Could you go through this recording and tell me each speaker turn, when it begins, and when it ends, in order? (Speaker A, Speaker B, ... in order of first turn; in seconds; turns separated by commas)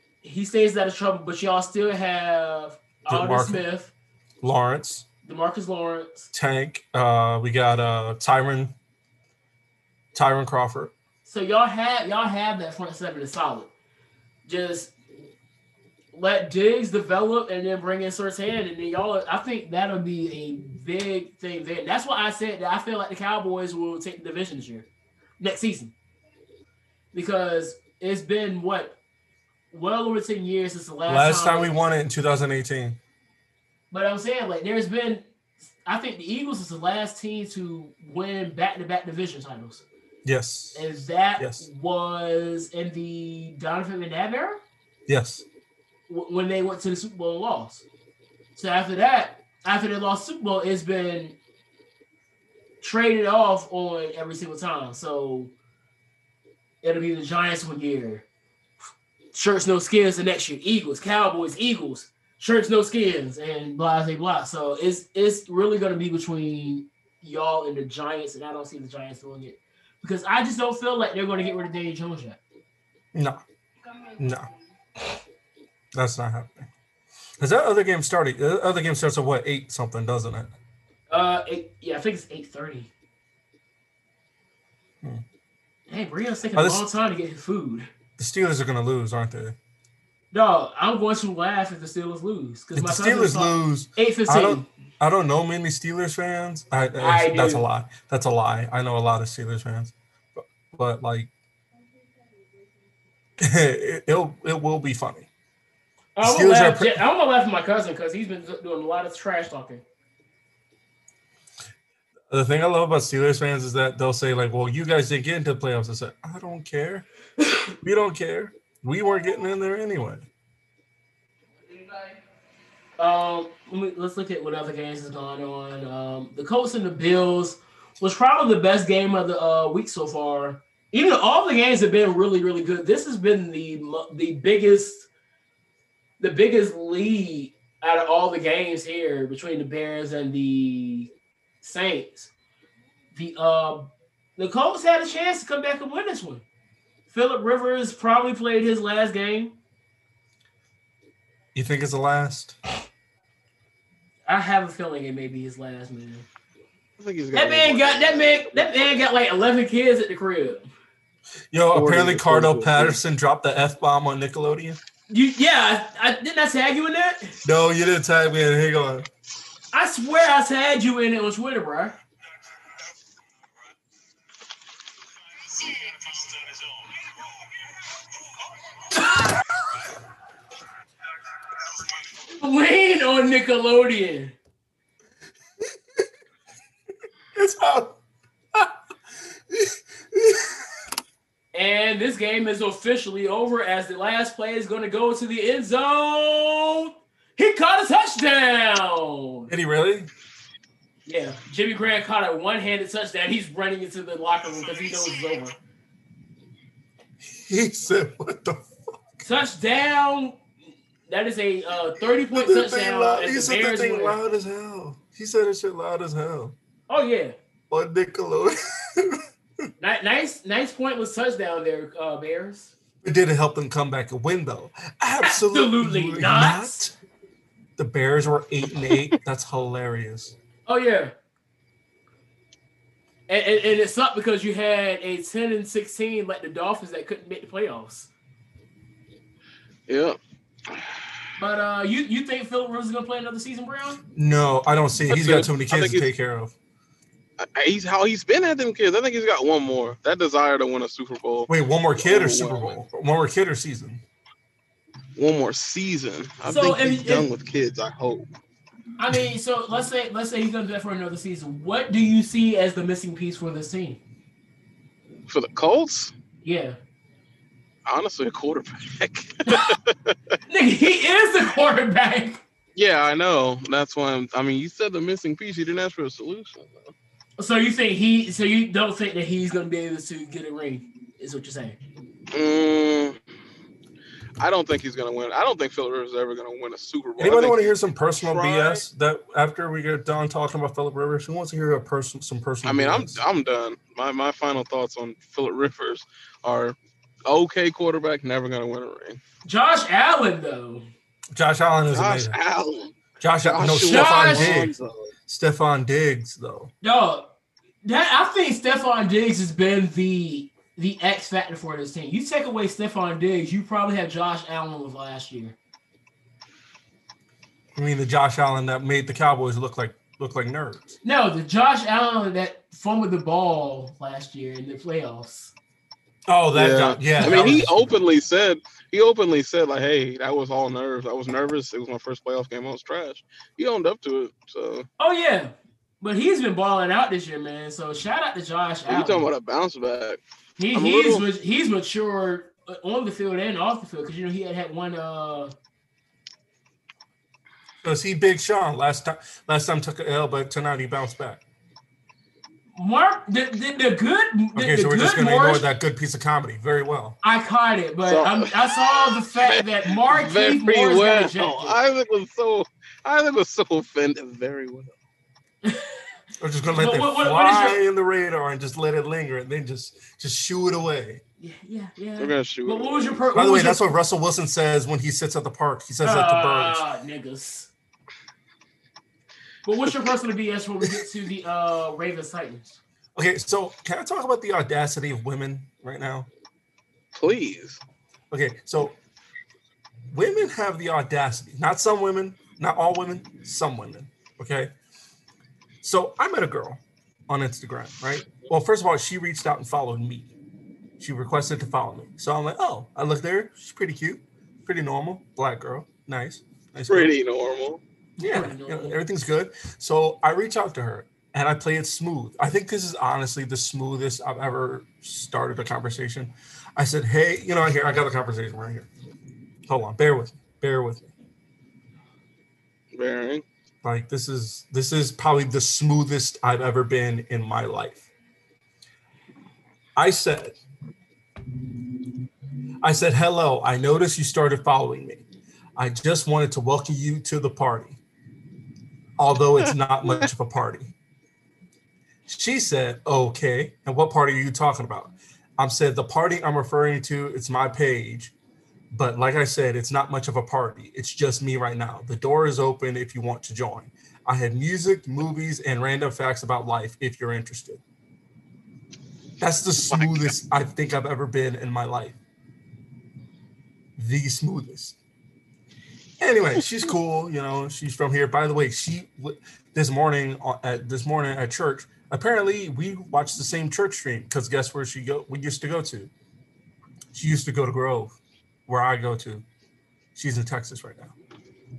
Speaker A: 0.2-3.9, Speaker B: 3.1-3.6, Speaker B: 4.4-5.0, Speaker A: 5.2-6.3, Speaker B: 6.3-8.7, Speaker B: 10.1-10.9, Speaker A: 11.2-13.7, Speaker A: 14.5-14.9, Speaker A: 16.1-24.9, Speaker A: 25.4-25.9, Speaker A: 27.1-29.0, Speaker A: 29.7-31.7, Speaker B: 31.1-33.0, Speaker A: 33.9-35.3, Speaker A: 35.8-39.9, Speaker B: 40.2-41.6, Speaker A: 40.8-44.6, Speaker B: 45.1-45.4, Speaker A: 46.1-47.9, Speaker A: 48.6-51.4, Speaker A: 52.8-55.5, Speaker A: 56.8-58.2, Speaker A: 59.3-72.4, Speaker B: 73.1-73.4, Speaker B: 74.2-74.5, Speaker B: 75.9-76.7, Speaker B: 77.4-80.5, Speaker A: 81.1-82.9, Speaker A: 85.9-87.9, Speaker B: 86.5-86.9, Speaker B: 88.2-89.6, Speaker A: 90.3-94.7, Speaker B: 92.7-101.3, Speaker A: 97.0-97.6, Speaker B: 103.4-105.3, Speaker A: 106.2-109.8, Speaker B: 106.2-107.0, Speaker B: 112.3-117.0, Speaker B: 117.8-120.3, Speaker A: 123.0-135.1, Speaker A: 136.2-141.1, Speaker A: 141.6-142.3, Speaker A: 143.1-146.4, Speaker A: 147.1-149.6, Speaker B: 151.6-152.6, Speaker A: 154.3-156.3, Speaker C: 157.0-159.1, Speaker A: 157.3-160.7, Speaker B: 161.5-164.8, Speaker C: 161.8-162.9, Speaker A: 165.1-167.4, Speaker B: 167.4-169.1, Speaker A: 169.7-172.0, Speaker A: 178.9-179.3, Speaker A: 182.3-184.4, Speaker B: 187.3-188.0, Speaker B: 189.5-190.6, Speaker A: 191.5-199.5, Speaker B: 199.5-200.1, Speaker A: 201.1-205.6, Speaker B: 207.2-208.7, Speaker A: 209.2-210.4, Speaker A: 211.1-214.2, Speaker B: 212.3-216.6, Speaker A: 216.9-217.3, Speaker B: 217.7-219.2, Speaker A: 219.8-222.7, Speaker B: 223.0-226.9, Speaker A: 225.2-226.8, Speaker B: 227.8-230.4, Speaker A: 230.7-231.1, Speaker A: 233.3-238.1, Speaker C: 239.9-241.1, Speaker A: 241.4-244.0, Speaker B: 244.2-246.5, Speaker C: 245.1-246.1, Speaker C: 247.4-252.7, Speaker B: 251.5-254.0, Speaker C: 255.2-258.3, Speaker A: 256.4-257.3, Speaker A: 259.0-264.0, Speaker C: 265.3-266.1, Speaker A: 266.4-266.8, Speaker C: 267.9-270.4, Speaker A: 269.5-269.7, Speaker A: 270.5-272.4, Speaker C: 272.8-276.9, Speaker A: 277.4-281.8, Speaker C: 282.3-283.2, Speaker C: 284.4-288.8, Speaker B: 287.2-293.2, Speaker C: 292.6-299.2, Speaker A: 299.4-300.9, Speaker B: 301.3-302.4, Speaker C: 301.9-305.1, Speaker B: 303.2-304.7, Speaker A: 303.8-304.6, Speaker B: 305.3-306.7, Speaker A: 306.8-307.3, Speaker A: 307.8-315.6, Speaker B: 317.8-321.0, Speaker A: 321.0-325.5, Speaker B: 326.3-327.9, Speaker C: 326.5-334.9, Speaker A: 327.1-327.6, Speaker A: 335.0-339.3, Speaker C: 338.9-340.2, Speaker A: 340.6-345.5, Speaker C: 340.7-341.3, Speaker B: 347.8-351.4, Speaker A: 352.8-355.6, Speaker B: 354.6-357.2, Speaker A: 357.2-361.8, Speaker C: 358.1-364.9, Speaker A: 365.6-366.0, Speaker B: 366.4-371.2, Speaker A: 366.7-367.8, Speaker A: 371.4-373.9, Speaker C: 372.2-373.2, Speaker B: 373.3-376.8, Speaker A: 376.0-377.7, Speaker A: 379.6-382.8, Speaker B: 383.1-386.3, Speaker C: 387.1-387.8, Speaker B: 388.3-389.0, Speaker B: 390.1-394.7, Speaker B: 395.8-400.3, Speaker B: 401.0-407.1, Speaker C: 406.9-407.8, Speaker A: 408.2-409.0, Speaker B: 408.2-418.9, Speaker B: 419.7-421.1, Speaker C: 422.9-423.4, Speaker B: 423.8-428.1, Speaker B: 430.0-430.6, Speaker B: 432.8-435.2, Speaker B: 435.8-438.0, Speaker B: 439.2-440.9, Speaker B: 442.3-448.3, Speaker B: 448.9-457.8, Speaker B: 459.4-462.2, Speaker C: 459.9-460.3, Speaker B: 464.0-465.0, Speaker B: 466.2-476.1, Speaker B: 477.1-478.2, Speaker B: 478.7-479.4, Speaker B: 480.1-481.1